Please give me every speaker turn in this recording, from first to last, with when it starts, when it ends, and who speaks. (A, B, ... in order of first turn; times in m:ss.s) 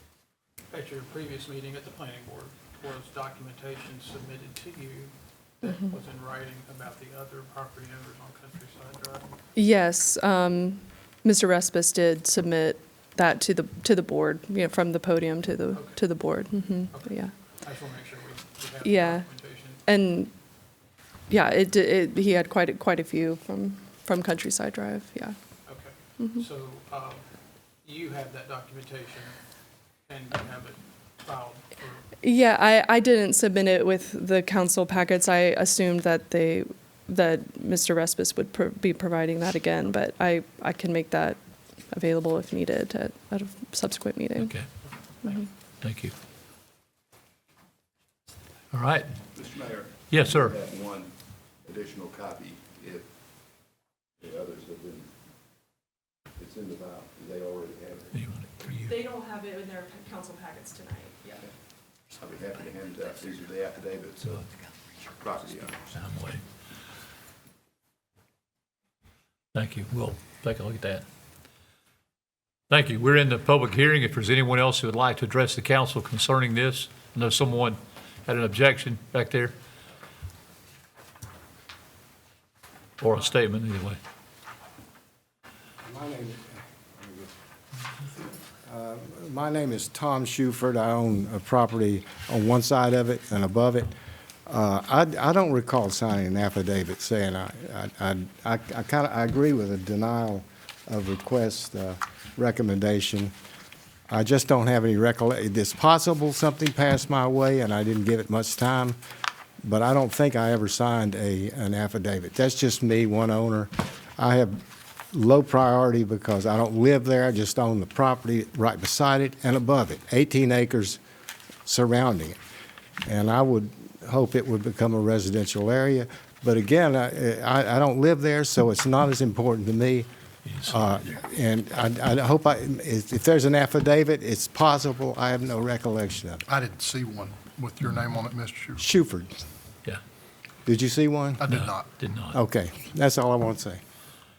0:00.7-0:09.4 A
0:09.6-0:17.3 B
0:15.7-0:19.8 A
0:18.8-0:19.3 B
0:19.8-0:20.3 B
0:21.3-0:25.4 B
0:25.7-0:27.2 A
0:27.8-0:29.4 A
0:30.1-0:32.0 A
0:32.2-0:41.4 B
0:41.9-0:44.5 B
0:44.4-0:44.7 C
0:45.2-0:45.5 B
0:45.8-0:46.1 C
0:48.7-0:49.1 C
0:49.3-0:51.1 D
0:50.1-0:50.6 C
0:51.6-0:53.1 D
0:54.2-0:55.1 D
0:56.4-0:58.1 D
0:58.1-0:59.0 C
0:58.8-1:01.4 B
1:02.2-1:04.4 D
1:05.2-1:06.0 D
1:05.9-1:06.4 C
1:09.5-1:11.0 C
1:12.7-1:19.5 C
1:23.0-1:24.0 C
1:25.8-1:27.3 E
1:28.6-1:33.9 E
1:34.5-1:43.3 E
1:44.1-1:49.0 E
1:49.6-2:01.0 E
2:01.7-2:02.4 E
2:03.0-2:10.1 E
2:10.5-2:10.8 C
2:10.6-2:16.4 E
2:16.5-2:18.9 F
2:18.8-2:19.3 E
2:20.7-2:21.4 E
2:21.4-2:21.9 F
2:21.5-2:22.4 C
2:22.3-2:23.8 E